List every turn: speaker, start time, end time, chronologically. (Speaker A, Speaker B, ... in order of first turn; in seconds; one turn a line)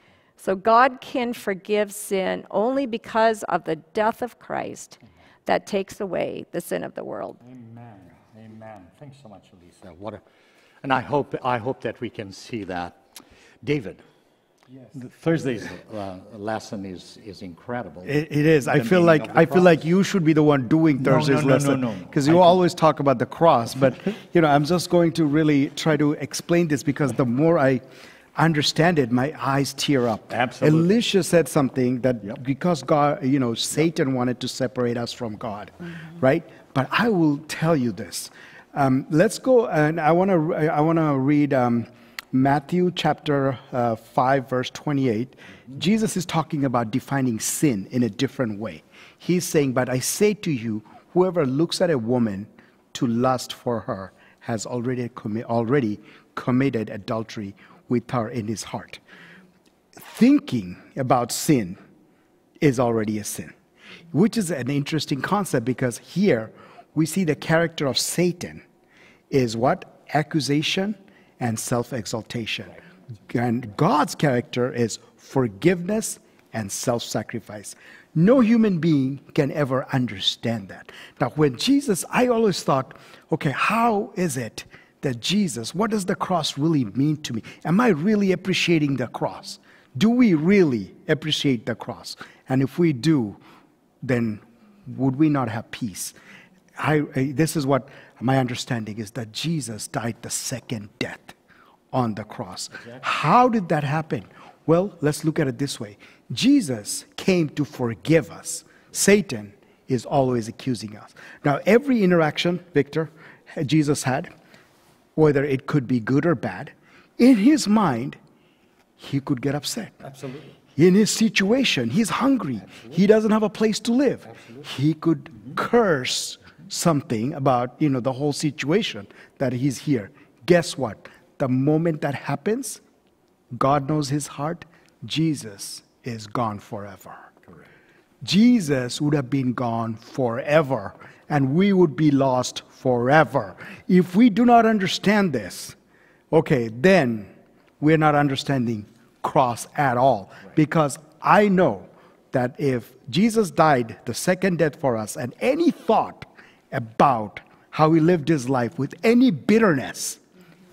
Speaker A: 0.4-7.4
Speaker B: 7.4-10.2
Speaker B: 10.8-13.0
Speaker B: 13.6-14.0
Speaker B: 14.9-19.8
Speaker C: 18.1-27.8
Speaker B: 21.0-22.6
Speaker C: 28.4-59.0
Speaker B: 30.3-31.0
Speaker C: 60.0-61.8
Speaker C: 62.6-63.5
Speaker C: 64.1-68.6
Speaker C: 69.3-93.4
Speaker C: 94.0-96.1
Speaker C: 96.8-101.3
Speaker C: 101.9-114.3
Speaker C: 115.2-118.2
Speaker C: 119.0-120.0
Speaker B: 120.0-120.6
Speaker C: 120.8-132.8
Speaker C: 133.5-137.3
Speaker C: 138.2-145.8
Speaker C: 146.3-160.2